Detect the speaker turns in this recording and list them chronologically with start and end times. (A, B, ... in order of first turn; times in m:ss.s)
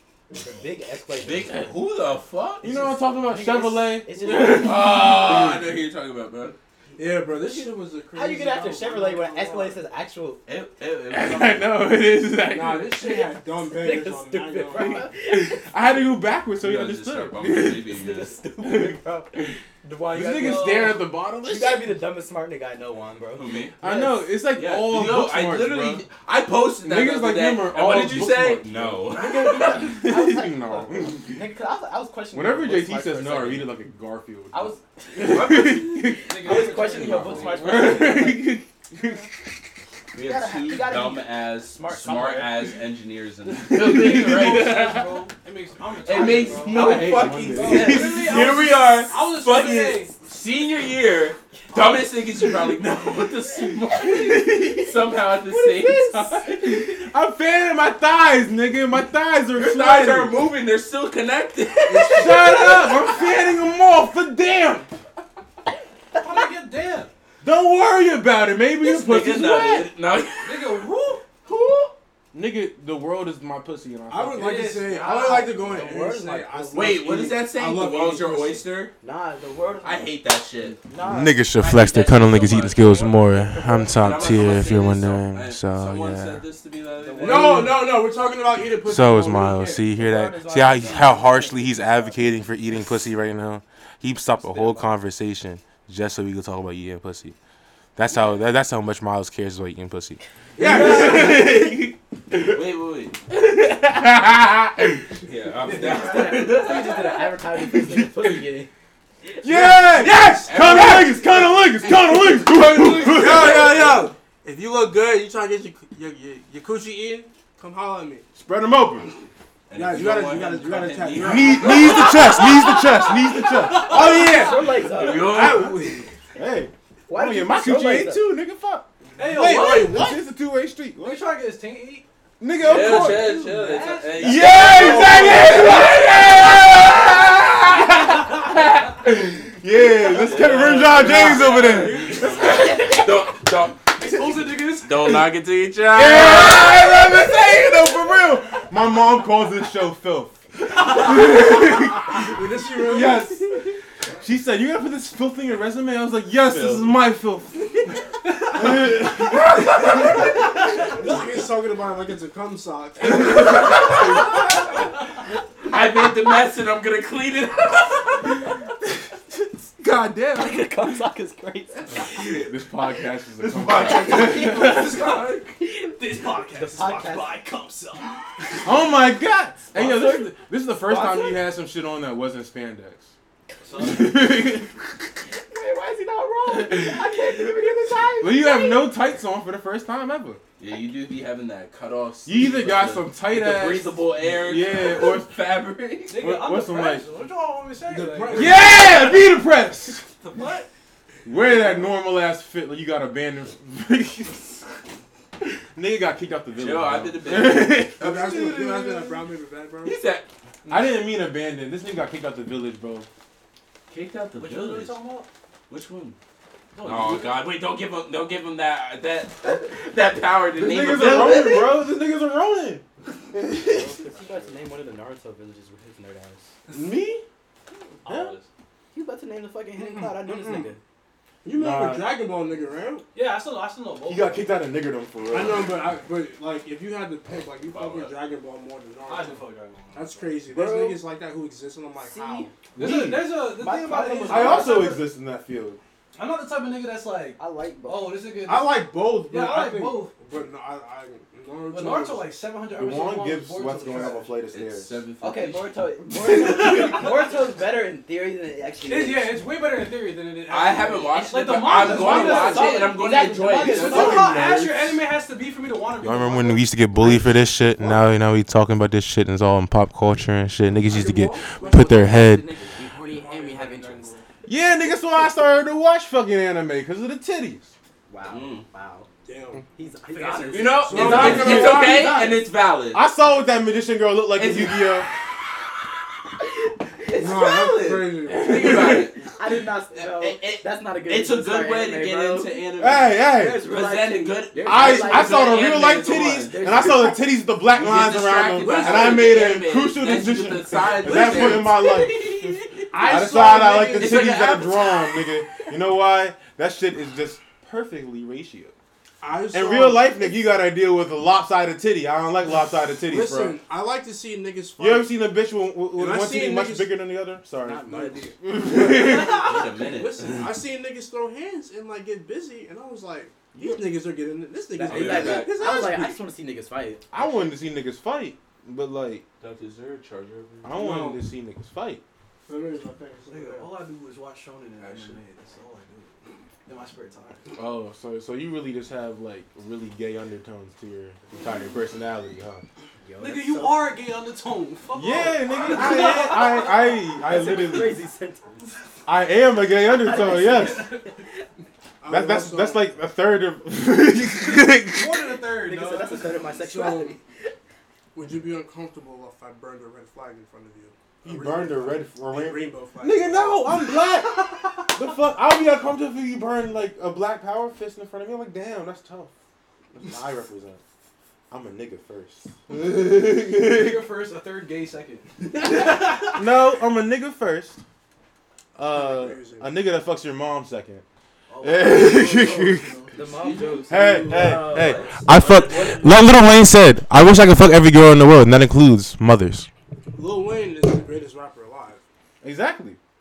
0:00.3-0:01.7 A
0:01.2-0:02.9 B
0:02.6-0:05.7 C
0:02.7-0:04.9 A
0:04.2-0:06.6 B
0:07.0-0:09.8 D
0:08.1-0:10.4 A
0:10.5-0:11.8 B
0:11.1-0:13.2 C
0:12.5-0:15.1 D
0:13.1-0:15.7 A
0:14.8-0:17.9 C
0:16.6-0:18.4 B
0:17.9-0:24.2 A
0:18.6-0:19.6 C
0:20.1-0:22.0 C
0:20.4-0:20.8 E
0:23.3-0:23.8 B
0:23.8-0:26.0 C
0:24.5-0:30.0 B
0:26.8-0:29.1 C
0:29.1-0:33.7 A
0:29.9-0:31.4 C
0:32.3-0:36.7 C
0:34.5-0:35.8 A
0:35.2-0:37.8 B
0:36.3-0:37.8 E
0:36.4-0:38.5 A
0:37.4-0:39.3 C
0:40.1-0:44.8 B
0:40.2-0:42.6 A
0:43.7-0:45.1 C
0:43.7-0:50.1 E
0:46.0-0:56.9 B
0:46.2-0:48.4 C
0:51.7-0:52.0 A
0:54.0-0:55.0 C
0:55.5-0:56.5 A
0:56.4-1:00.4 C
0:59.5-1:03.2 B
1:01.9-1:02.5 D
1:02.0-1:04.9 C
1:06.1-1:07.1 E
1:07.4-1:09.9 C
1:08.8-1:10.9 B
1:10.4-1:11.2 E
1:11.5-1:11.9 B
1:12.3-1:14.6 C
1:14.1-1:18.6 D
1:14.3-1:15.8 E
1:14.9-1:17.1 A
1:16.7-1:18.9 B
1:19.0-1:20.1 A
1:19.8-1:20.8 B
1:20.8-1:21.4 A
1:21.0-1:26.4 C
1:21.5-1:23.2 B
1:22.9-1:24.5 A
1:23.9-1:27.7 B
1:27.0-1:27.7 A
1:27.2-1:29.8 D
1:28.8-1:37.4 C
1:29.9-1:32.4 A
1:34.4-1:34.8 A
1:38.0-1:42.6 C
1:40.6-1:41.4 D
1:40.8-1:41.3 B
1:42.4-1:43.2 B
1:43.3-1:45.1 C
1:45.2-1:47.2 B
1:45.7-1:48.7 A
1:47.6-1:48.4 C
1:49.4-1:49.7 A
1:49.4-1:54.1 C
1:49.9-1:51.0 D
1:50.4-1:51.7 B
1:53.0-1:58.3 D
1:58.3-1:59.1 C
1:59.7-2:02.5 B
1:59.7-2:02.0 D
2:01.2-2:11.2 C
2:01.8-2:04.7 E
2:03.8-2:05.6 A
2:04.7-2:06.1 B
2:07.1-2:08.2 A
2:09.2-2:10.1 E
2:09.2-2:10.2 D
2:11.0-2:12.0 E
2:12.4-2:13.4 C
2:12.6-2:16.8 B
2:12.8-2:15.2 E
2:14.2-2:23.1 C
2:14.6-2:15.5 D
2:20.0-2:24.0 B
2:20.4-2:23.0 E
2:24.0-2:25.2 E
2:24.8-2:26.9 B
2:25.9-2:40.4 C
2:32.2-2:33.4 D
2:36.4-2:36.9 B
2:40.8-2:43.8 D
2:43.1-2:44.7 B
2:45.6-2:48.5 B
2:49.8-2:50.5 C
2:50.3-2:52.2 A
2:52.0-2:52.4 B
2:52.4-2:55.0 C
2:53.4-2:55.5 B
2:53.7-2:57.4 A
2:54.0-2:55.2 E
2:55.9-2:58.6 E
2:58.6-3:03.1 C
2:59.7-3:01.4 A
3:03.6-3:04.1 E
3:03.8-3:04.8 C
3:05.3-3:08.9 A
3:06.5-3:07.2 C
3:08.2-3:10.4 C
3:10.6-3:16.2 B
3:12.2-3:15.4 C
3:16.1-3:19.1 E
3:16.2-3:17.1 C
3:17.8-3:18.8 D
3:18.3-3:20.0 C
3:20.2-3:20.7 E
3:21.2-3:24.6 C
3:25.4-3:29.2 C
3:26.5-3:27.8 B
3:28.0-3:30.0 D
3:29.8-3:30.3 B
3:30.6-3:30.9 D
3:30.7-3:33.1 C
3:33.9-3:35.0 B
3:34.3-3:35.3 E
3:35.7-3:36.2 B
3:36.7-3:37.4 E
3:36.8-3:41.7 B
3:40.5-3:44.0 C
3:43.6-3:46.5 A
3:46.7-3:47.2 D
3:46.7-3:47.2 C
3:48.0-3:48.4 C
3:48.0-3:48.4 B
3:48.9-3:50.8 A
3:49.8-3:50.7 D
3:51.4-3:53.0 D
3:51.5-3:52.1 C
3:53.1-3:54.5 E
3:54.0-3:55.7 C
3:55.3-4:02.5 D
3:57.6-3:58.1 B
3:59.1-4:00.3 E
4:00.5-4:01.0 A
4:02.0-4:02.5 A
4:02.8-4:03.6 C
4:02.8-4:05.0 E
4:03.5-4:05.1 A
4:04.2-4:05.8 C
4:06.1-4:10.1 E
4:07.4-4:08.3 A
4:08.4-4:12.3 D
4:11.7-4:14.3 E
4:12.7-4:15.0 C
4:14.5-4:15.8 B
4:15.2-4:19.4 A
4:16.2-4:17.3 E
4:18.8-4:23.0 E
4:20.5-4:24.8 B
4:21.4-4:24.5 A
4:23.6-4:26.7 E
4:26.0-4:32.4 C
4:30.8-4:32.1 D
4:31.6-4:34.1 A
4:33.1-4:34.2 D
4:34.4-4:37.7 C
4:38.1-4:39.1 A
4:38.2-4:38.7 B
4:39.2-4:39.6 D
4:39.7-4:42.4 A
4:40.1-4:40.5 E
4:40.2-4:41.9 D
4:40.5-4:43.0 B
4:40.9-4:42.4 C
4:42.9-4:45.1 C
4:44.4-4:45.0 B
4:47.0-4:48.0 A
4:47.1-4:49.1 D
4:48.3-4:49.2 B
4:48.3-4:49.1 C
4:49.3-4:52.6 A
4:49.9-4:56.5 B
4:52.8-4:53.6 C
4:53.3-4:55.9 A
4:54.6-5:08.7 C
4:56.5-4:57.2 A
4:57.7-5:02.8 B
4:58.6-4:59.3 D
5:01.1-5:01.6 D
5:02.9-5:04.3 D
5:03.9-5:05.2 B
5:09.2-5:10.1 D
5:09.5-5:13.6 C
5:13.1-5:15.2 D
5:14.8-5:19.5 C
5:15.9-5:16.9 D
5:17.6-5:18.4 A
5:17.9-5:26.2 D
5:19.0-5:19.5 E
5:19.2-5:20.5 B
5:24.7-5:27.3 A
5:24.9-5:25.8 B
5:27.1-5:29.2 C
5:29.4-5:30.8 B
5:30.6-5:32.0 C
5:30.7-5:31.2 D
5:32.4-5:33.8 D
5:33.3-5:37.6 E
5:34.8-5:35.2 B
5:37.6-5:42.6 C
5:43.0-5:44.0 A
5:43.2-5:46.7 E
5:44.9-5:48.0 C
5:45.6-5:48.6 A
5:49.0-5:50.9 C
5:49.7-5:51.4 A
5:50.4-5:51.0 E
5:52.0-5:52.9 D
5:52.1-5:55.4 C
5:54.8-5:56.4 E
5:55.6-5:57.5 A
5:56.6-5:57.2 D
5:58.1-6:03.7 D
6:01.2-6:09.3 C
6:09.9-6:10.8 C
6:11.5-6:14.1 C
6:13.5-6:16.4 E
6:16.3-6:17.8 C
6:18.8-6:21.0 C
6:18.9-6:19.7 D
6:21.5-6:23.2 E
6:21.6-6:22.9 C
6:23.1-6:25.9 A
6:23.3-6:26.1 B
6:23.9-6:29.7 C
6:30.1-6:32.0 D
6:32.4-6:33.0 C